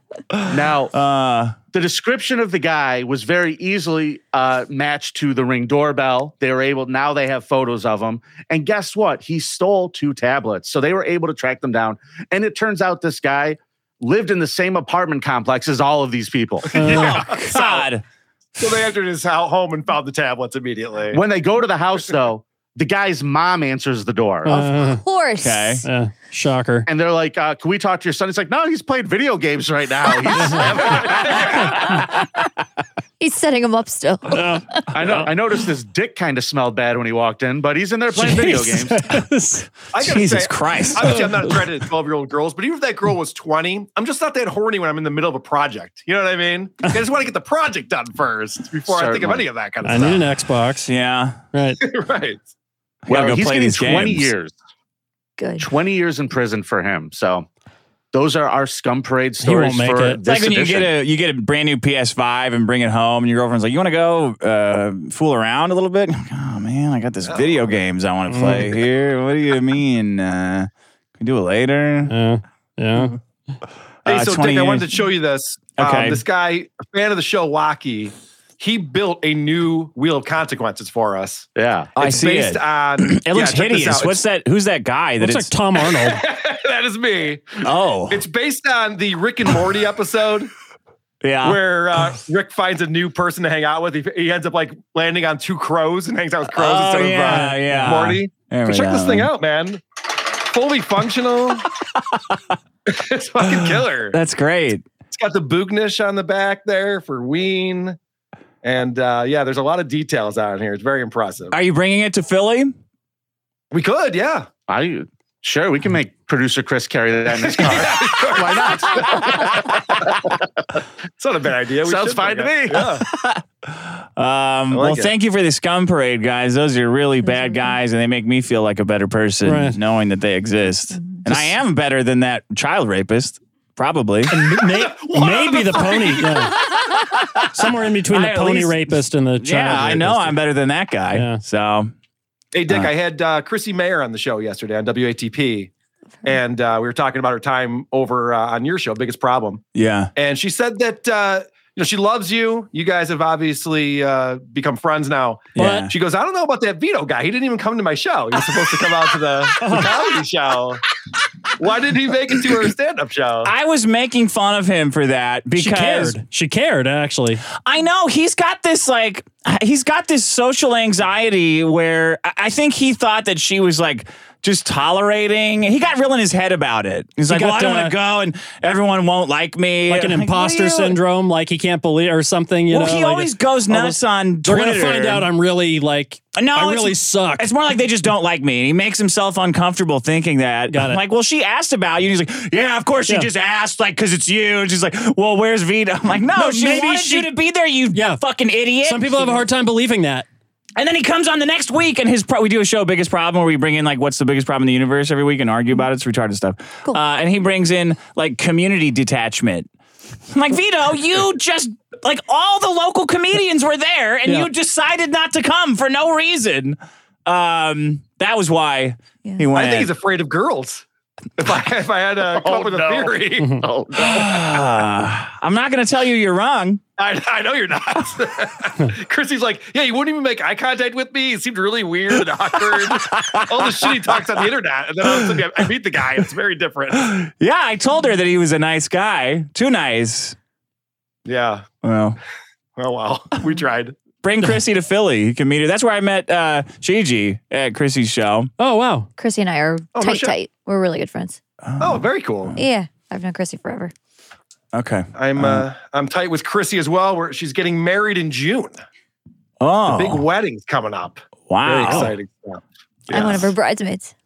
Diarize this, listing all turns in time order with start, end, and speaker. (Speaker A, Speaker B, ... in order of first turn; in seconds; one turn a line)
Speaker A: 0.3-1.6
Speaker B: 0.5-0.9
Speaker B: 1.7-16.8
Speaker C: 16.7-17.9
Speaker D: 16.7-17.2
Speaker A: 17.1-18.0
Speaker C: 18.6-21.2
Speaker B: 21.1-24.7
Speaker D: 24.5-25.0
Speaker E: 24.5-25.8
Speaker A: 25.4-25.8
Speaker D: 25.8-26.9
Speaker B: 26.9-31.1
Speaker D: 30.3-30.6
Speaker C: 30.5-31.8
Speaker E: 31.8-32.3
Speaker E: 33.2-34.9
Speaker D: 34.3-34.6
Speaker B: 34.9-39.1
Speaker D: 38.1-39.7
Speaker C: 39.9-50.3
Speaker A: 40.0-41.2
Speaker D: 41.0-41.5
Speaker B: 48.8-49.5
Speaker D: 49.8-50.9
Speaker A: 50.9-51.4
Speaker D: 51.5-51.8
Speaker C: 51.8-52.5
Speaker A: 53.1-54.3
Speaker B: 53.1-54.5
Speaker E: 55.4-55.7
Speaker B: 55.6-57.5
Speaker B: 58.1-60.9
Speaker D: 59.4-60.2
Speaker A: 60.2-72.1
Speaker C: 67.2-67.8
Speaker D: 68.3-68.8
Speaker D: 72.1-73.2
Speaker A: 74.0-74.9
Speaker C: 74.1-84.2
Speaker A: 75.8-76.2
Speaker B: 81.6-81.9
Speaker A: 82.0-85.5
Speaker D: 85.2-86.2
Speaker C: 85.8-87.6
Speaker A: 87.6-88.2
Speaker C: 88.1-90.5
Speaker A: 91.2-91.6
Speaker C: 91.4-101.7
Speaker A: 96.5-99.3
Speaker D: 97.3-97.6
Speaker C: 102.9-104.2
Speaker A: 103.5-104.8
Speaker C: 105.1-108.0
Speaker C: 108.6-111.5
Speaker A: 111.5-112.7
Speaker C: 113.7-114.5
Speaker B: 114.7-119.5
Speaker C: 117.3-119.2
Speaker C: 121.2-123.0
Speaker B: 121.8-123.0
Speaker A: 123.1-134.3
Speaker C: 124.7-125.1
Speaker E: 127.2-127.8
Speaker D: 129.4-129.8
Speaker E: 130.9-131.3
Speaker D: 134.3-136.6
Speaker C: 134.3-136.5
Speaker A: 137.0-137.4
Speaker D: 137.5-140.4
Speaker A: 138.1-141.9
Speaker D: 141.1-141.4
Speaker C: 142.5-145.7
Speaker A: 142.7-142.9
Speaker C: 146.2-149.6
Speaker A: 149.7-150.1
Speaker C: 150.2-160.8
Speaker D: 155.6-155.9
Speaker A: 155.6-155.9
Speaker D: 159.6-159.9
Speaker C: 161.6-163.5
Speaker A: 163.4-166.2
Speaker D: 165.6-167.4
Speaker A: 167.5-181.0
Speaker D: 177.3-177.9
Speaker D: 179.9-187.7
Speaker A: 182.7-185.3
Speaker A: 186.3-199.4
Speaker D: 190.7-191.0
Speaker D: 196.3-197.3
Speaker D: 197.9-198.2
Speaker D: 198.8-200.3
Speaker A: 200.8-209.7
Speaker A: 210.3-219.9
Speaker C: 219.5-220.8
Speaker C: 221.4-223.6
Speaker B: 222.3-224.6
Speaker D: 223.4-223.7
Speaker A: 224.0-226.8
Speaker C: 227.0-237.1
Speaker A: 233.1-233.9
Speaker A: 237.0-240.4
Speaker C: 241.3-241.7
Speaker A: 241.8-242.2
Speaker C: 242.8-244.0
Speaker A: 244.2-248.5
Speaker D: 248.6-249.1
Speaker E: 249.2-251.4
Speaker C: 249.9-250.4
Speaker A: 251.7-252.1
Speaker C: 251.8-252.6
Speaker E: 252.6-253.9
Speaker A: 254.7-255.7
Speaker C: 255.2-258.9
Speaker A: 259.6-260.2
Speaker C: 259.9-263.5
Speaker A: 261.5-262.1
Speaker E: 263.1-264.1